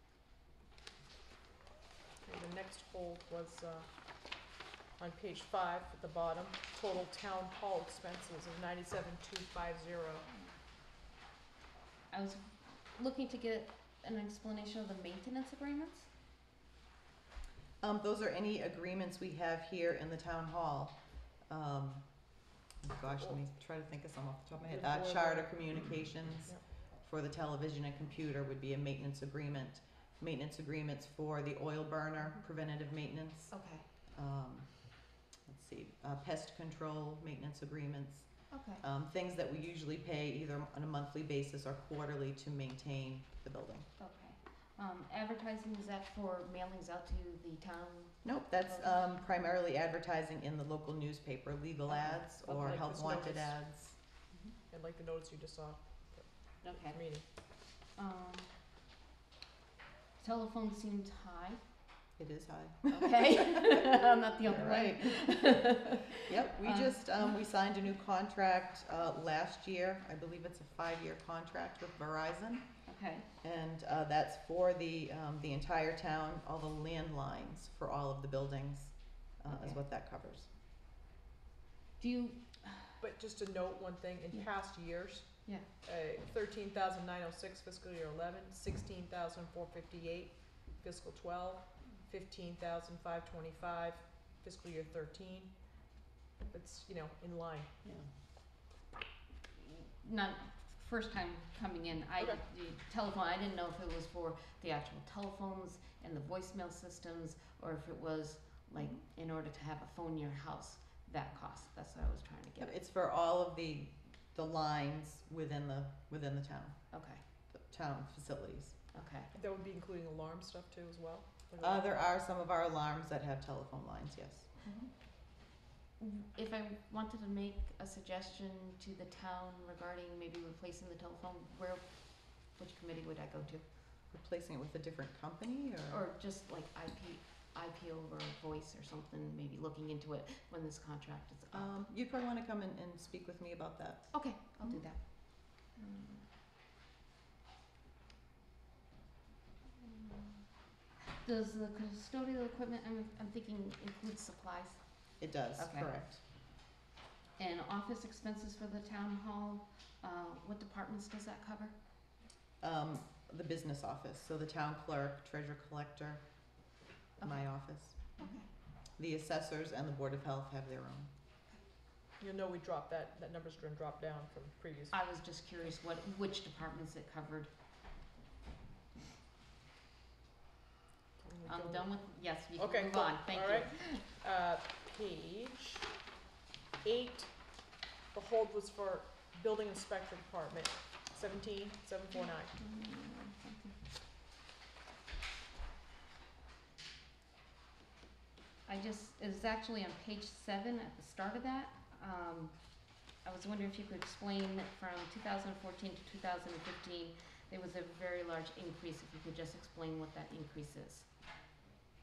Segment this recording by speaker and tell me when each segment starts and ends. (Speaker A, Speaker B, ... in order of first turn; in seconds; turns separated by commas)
Speaker A: 2.2-3.9, Speaker A: 5.0-10.3, Speaker B: 12.1-16.1, Speaker C: 17.8-21.0, Speaker C: 21.5-22.3, Speaker C: 22.8-33.5, Speaker A: 24.7-25.9, Speaker B: 33.5-33.9, Speaker C: 34.1-35.0, Speaker C: 35.5-43.9, Speaker B: 38.5-38.8, Speaker B: 44.0-49.2, Speaker C: 48.2-54.0, Speaker A: 52.4-53.6, Speaker A: 54.7-57.2, Speaker B: 56.6-58.5, Speaker B: 60.2-61.6, Speaker C: 62.2-72.7, Speaker B: 62.9-67.3, Speaker B: 72.9-73.3, Speaker C: 73.4-80.5, Speaker B: 79.5-79.8, Speaker B: 82.0-83.0, Speaker A: 83.0-95.9, Speaker A: 96.5-97.7, Speaker C: 97.8-98.1, Speaker B: 99.6-112.7, Speaker C: 112.6-116.8, Speaker B: 116.9-117.2, Speaker C: 117.5-118.8, Speaker B: 118.9-119.3, Speaker A: 119.3-121.9, Speaker C: 121.6-124.9, Speaker B: 126.0-133.7, Speaker C: 134.1-136.1, Speaker B: 135.9-141.7, Speaker C: 141.5-144.8, Speaker B: 144.1-146.3, Speaker B: 149.8-150.4, Speaker B: 151.0-155.9, Speaker C: 155.2-156.2, Speaker B: 157.4-161.8, Speaker C: 162.6-166.2, Speaker B: 167.2-167.5, Speaker C: 167.2-168.1, Speaker B: 168.2-168.5, Speaker C: 169.0-171.1, Speaker A: 172.2-175.0, Speaker B: 174.9-177.5, Speaker A: 181.2-181.9, Speaker B: 181.4-184.0, Speaker A: 182.6-185.9, Speaker A: 186.8-187.6, Speaker A: 188.1-192.5, Speaker B: 192.2-193.8, Speaker B: 198.7-211.1